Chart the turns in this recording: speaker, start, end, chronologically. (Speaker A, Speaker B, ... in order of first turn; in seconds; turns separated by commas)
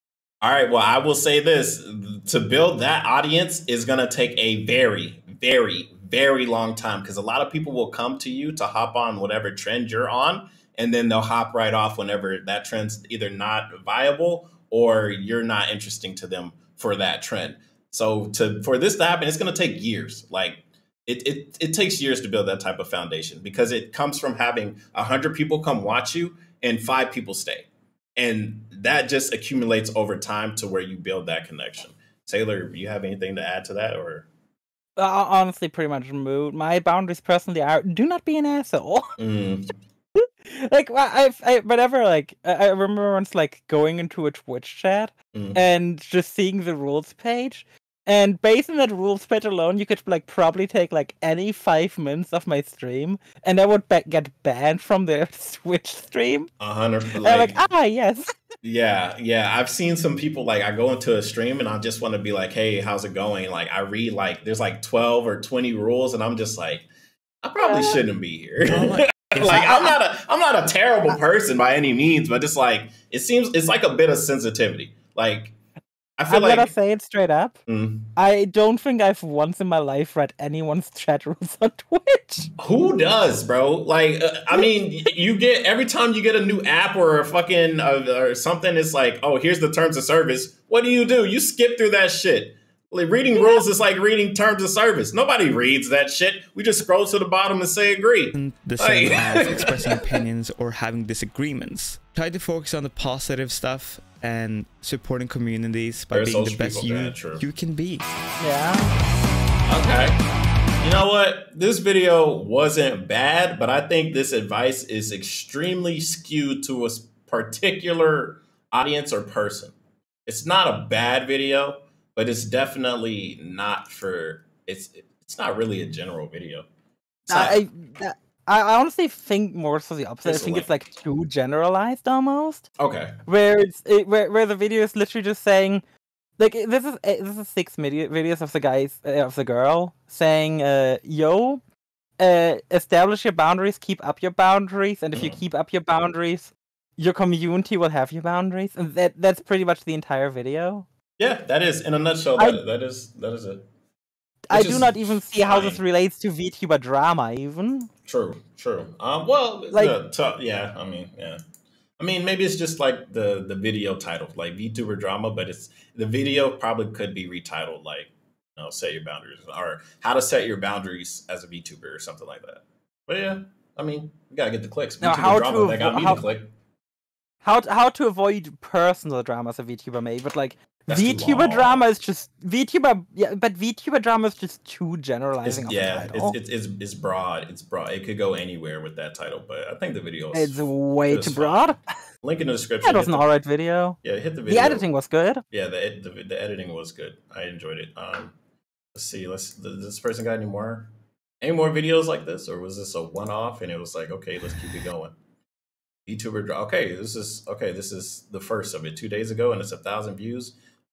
Speaker A: 0.4-34.3, Speaker B: 35.0-39.1, Speaker A: 39.2-39.7, Speaker B: 40.4-56.5, Speaker A: 56.6-57.5, Speaker B: 57.2-58.3, Speaker A: 58.6-66.9, Speaker A: 67.4-75.5, Speaker B: 67.6-68.0, Speaker C: 68.6-69.7, Speaker A: 76.2-76.7, Speaker B: 76.3-77.6, Speaker A: 77.7-78.1, Speaker B: 78.1-82.5, Speaker A: 82.6-99.9, Speaker C: 98.3-108.0, Speaker A: 106.1-107.4, Speaker B: 108.4-108.9, Speaker A: 109.7-110.2, Speaker A: 110.8-119.7, Speaker A: 120.2-126.7, Speaker A: 127.3-127.6, Speaker B: 127.3-132.7, Speaker A: 130.2-130.7, Speaker A: 132.8-133.1, Speaker B: 133.2-135.8, Speaker B: 136.4-141.6, Speaker B: 142.2-150.9, Speaker A: 145.1-145.4, Speaker A: 151.2-153.6, Speaker B: 154.5-157.9, Speaker A: 154.5-155.8, Speaker A: 158.1-161.4, Speaker A: 162.0-176.4, Speaker B: 175.0-176.2, Speaker B: 177.4-186.3, Speaker A: 180.9-181.8, Speaker A: 185.4-193.2, Speaker B: 190.3-191.8, Speaker B: 192.8-195.4, Speaker A: 194.0-194.8, Speaker A: 195.5-198.3, Speaker A: 198.9-200.9, Speaker A: 201.4-205.1, Speaker A: 206.1-210.5